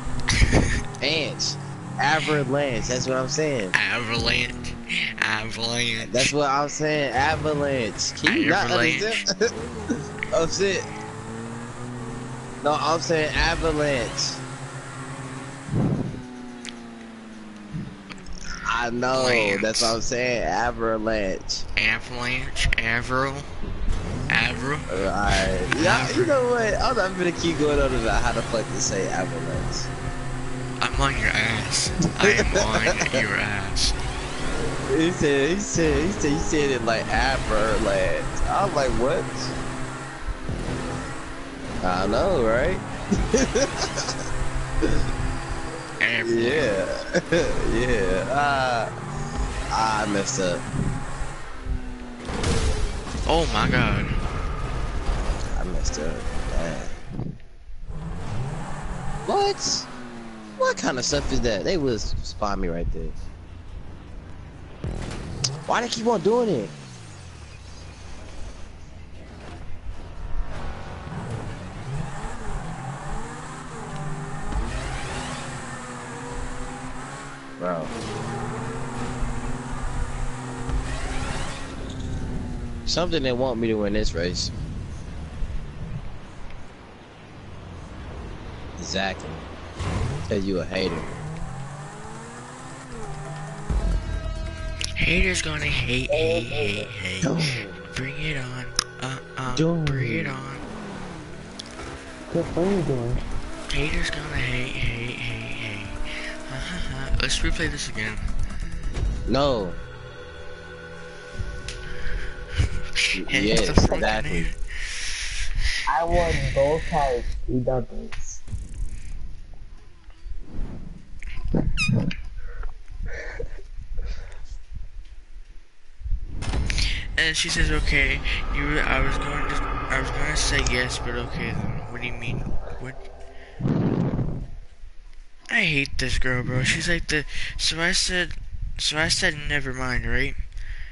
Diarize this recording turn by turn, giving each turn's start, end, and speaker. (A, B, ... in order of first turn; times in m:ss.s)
0:00.3-0:00.7 A
0:01.0-0:03.7 B
0:03.7-0:06.3 A
0:06.0-0:09.5 B
0:08.2-0:09.2 A
0:10.3-0:10.9 B
0:12.6-0:14.4 B
0:18.6-0:21.7 B
0:19.2-0:20.0 A
0:21.8-0:23.5 A
0:24.3-0:24.9 A
0:24.9-0:29.9 B
0:25.7-0:26.4 A
0:30.8-0:34.0 A
0:32.2-0:33.2 B
0:34.9-0:39.5 B
0:41.8-0:44.1 B
0:46.0-0:46.7 A
0:46.2-0:48.9 B
0:49.7-0:50.6 B
0:53.2-0:54.2 A
0:55.5-0:57.0 B
0:59.3-0:59.9 B
1:00.6-1:03.2 B
1:05.7-1:06.8 B
1:17.6-1:17.9 B
1:22.9-1:24.5 B
1:28.8-1:29.5 B
1:30.3-1:31.2 B
1:35.0-1:40.7 A
1:36.1-1:36.9 C
1:37.2-1:37.8 B
1:39.5-1:40.4 B
1:42.3-1:43.2 C
1:43.7-1:48.3 A
1:49.3-1:49.8 B
1:53.0-1:55.3 A
1:53.2-1:54.5 B
1:55.8-1:58.4 C
2:07.2-2:13.0 A
2:15.5-2:20.4 A